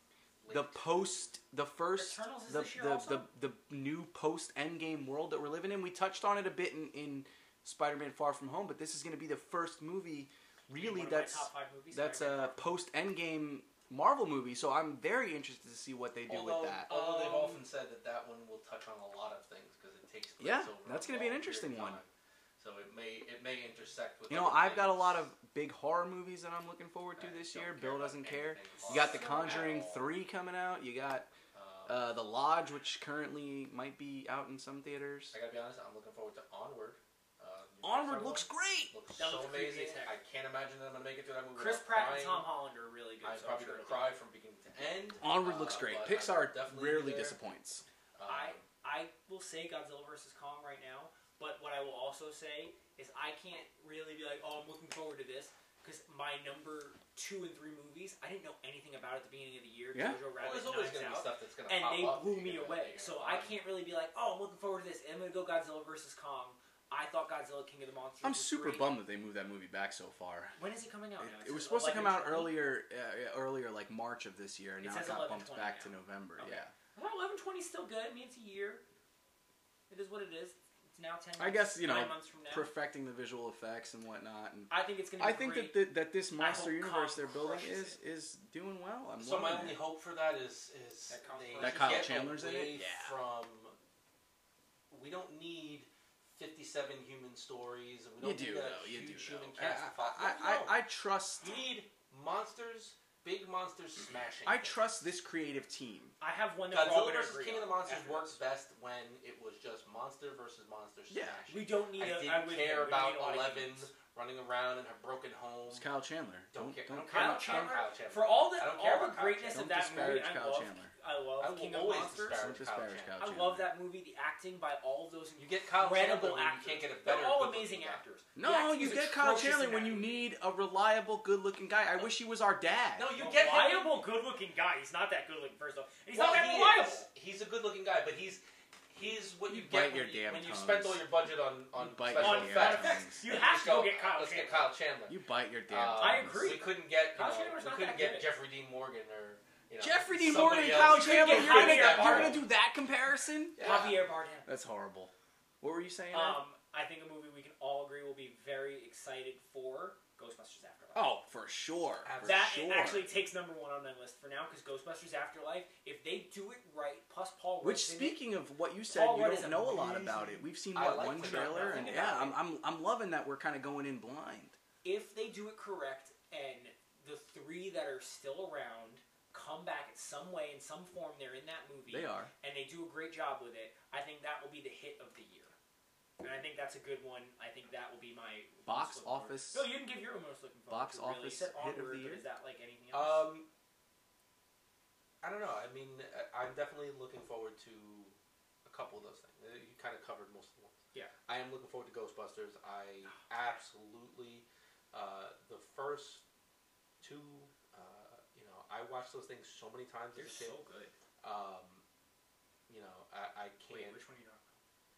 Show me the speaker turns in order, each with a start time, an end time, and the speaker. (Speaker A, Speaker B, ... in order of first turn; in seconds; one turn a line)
Speaker A: 0.4-1.1
Speaker B: 0.5-16.9
Speaker C: 2.0-3.3
Speaker C: 10.7-12.6
Speaker A: 16.3-25.3
Speaker C: 16.9-17.6
Speaker B: 20.4-22.0
Speaker B: 24.3-31.3
Speaker A: 27.1-30.1
Speaker C: 28.8-29.8
Speaker A: 31.5-32.1
Speaker B: 31.9-35.3
Speaker A: 35.3-42.5
Speaker B: 37.8-38.9
Speaker C: 39.1-40.1
Speaker C: 41.5-44.1
Speaker A: 43.2-47.4
Speaker B: 45.2-47.8
Speaker A: 48.1-48.6
Speaker C: 48.3-69.0
Speaker B: 59.9-60.2
Speaker A: 60.4-63.6
Speaker B: 68.2-70.5
Speaker C: 70.6-72.6
Speaker B: 71.2-76.7
Speaker C: 74.8-78.8
Speaker C: 79.9-82.7
Speaker B: 81.4-89.8
Speaker C: 84.7-88.0
Speaker A: 89.2-93.8
Speaker C: 91.1-92.2
Speaker B: 91.6-93.2
Speaker A: 94.9-100.8
Speaker B: 98.2-101.5
Speaker A: 101.4-104.8
Speaker B: 104.5-106.2
Speaker C: 106.2-108.3
Speaker A: 106.7-115.9
Speaker B: 111.1-111.4
Speaker C: 111.5-113.9
Speaker B: 115.7-117.8
Speaker A: 116.5-119.6
Speaker C: 117.1-122.5
Speaker B: 119.5-120.9
Speaker A: 121.4-123.1
Speaker B: 122.3-123.7
Speaker C: 123.2-130.2
Speaker A: 125.4-128.0
Speaker B: 128.3-133.1
Speaker A: 132.9-134.1
Speaker C: 133.1-137.1
Speaker A: 136.1-152.5
Speaker B: 139.5-141.1
Speaker B: 141.8-143.2
Speaker C: 142.2-144.7
Speaker B: 145.1-146.6
Speaker C: 146.0-148.3
Speaker B: 149.8-153.9
Speaker C: 150.3-152.4
Speaker A: 153.6-154.1
Speaker C: 153.6-154.5
Speaker B: 154.4-156.4
Speaker C: 156.1-161.0
Speaker B: 160.9-163.1
Speaker A: 162.0-162.6
Speaker C: 162.2-168.2
Speaker B: 167.6-174.6
Speaker C: 168.9-172.4
Speaker A: 170.7-172.2
Speaker C: 174.8-185.5
Speaker B: 181.9-182.3
Speaker C: 186.2-193.3
Speaker B: 188.7-189.7
Speaker B: 190.7-192.2
Speaker A: 192.9-193.5
Speaker A: 195.2-200.7
Speaker A: 201.3-206.2
Speaker A: 207.0-210.5
Speaker C: 210.1-210.9
Speaker A: 211.2-211.8
Speaker A: 212.7-214.0
Speaker C: 213.7-214.6